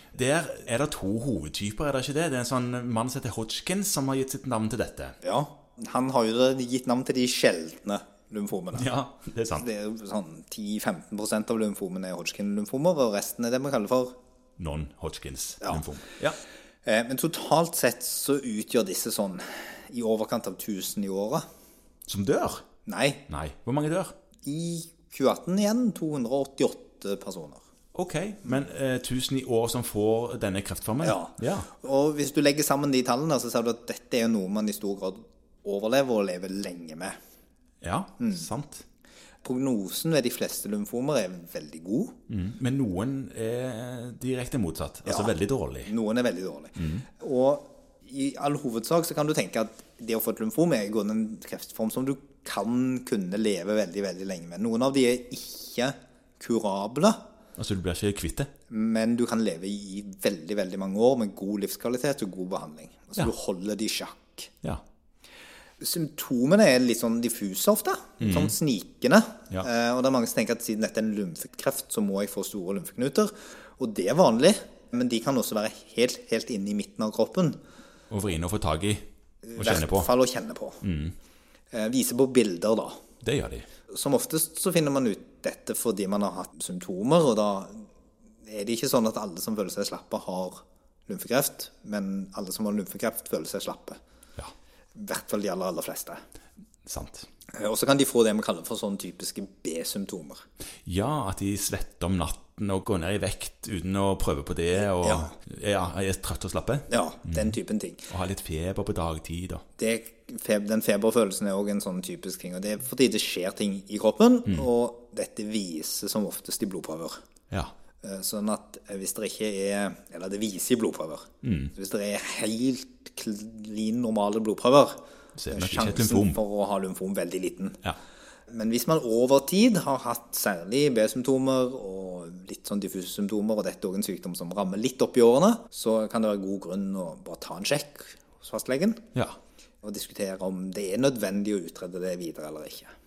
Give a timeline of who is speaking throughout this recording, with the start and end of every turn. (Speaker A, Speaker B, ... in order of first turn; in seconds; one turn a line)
Speaker A: 0.1-5.1
Speaker B: 5.2-8.9
Speaker A: 8.7-9.7
Speaker B: 9.5-14.1
Speaker A: 14.6-16.4
Speaker B: 15.6-15.9
Speaker B: 16.8-21.4
Speaker A: 22.1-22.6
Speaker B: 22.9-23.2
Speaker A: 23.3-24.1
Speaker B: 24.4-27.6
Speaker A: 27.9-31.7
Speaker B: 31.0-37.1
Speaker A: 37.8-38.8
Speaker B: 39.4-42.1
Speaker A: 42.3-45.9
Speaker B: 45.1-45.3
Speaker B: 45.9-57.2
Speaker A: 46.8-47.0
Speaker A: 57.6-58.5
Speaker B: 58.7-64.5
Speaker B: 65.8-77.6
Speaker A: 68.2-68.5
Speaker A: 78.1-79.0
Speaker B: 79.4-80.8
Speaker A: 79.6-80.1
Speaker A: 80.8-81.1
Speaker B: 81.7-83.0
Speaker A: 83.2-83.7
Speaker B: 83.9-87.9
Speaker B: 88.4-94.0
Speaker B: 94.9-96.2
Speaker A: 96.8-97.3
Speaker B: 97.5-100.4
Speaker A: 100.8-107.5
Speaker B: 104.9-105.3
Speaker B: 106.9-108.1
Speaker A: 108.1-109.6
Speaker B: 109.8-117.2
Speaker B: 118.0-125.0
Speaker A: 121.4-121.7
Speaker A: 125.4-126.4
Speaker B: 125.5-127.8
Speaker B: 128.5-139.1
Speaker B: 139.8-142.9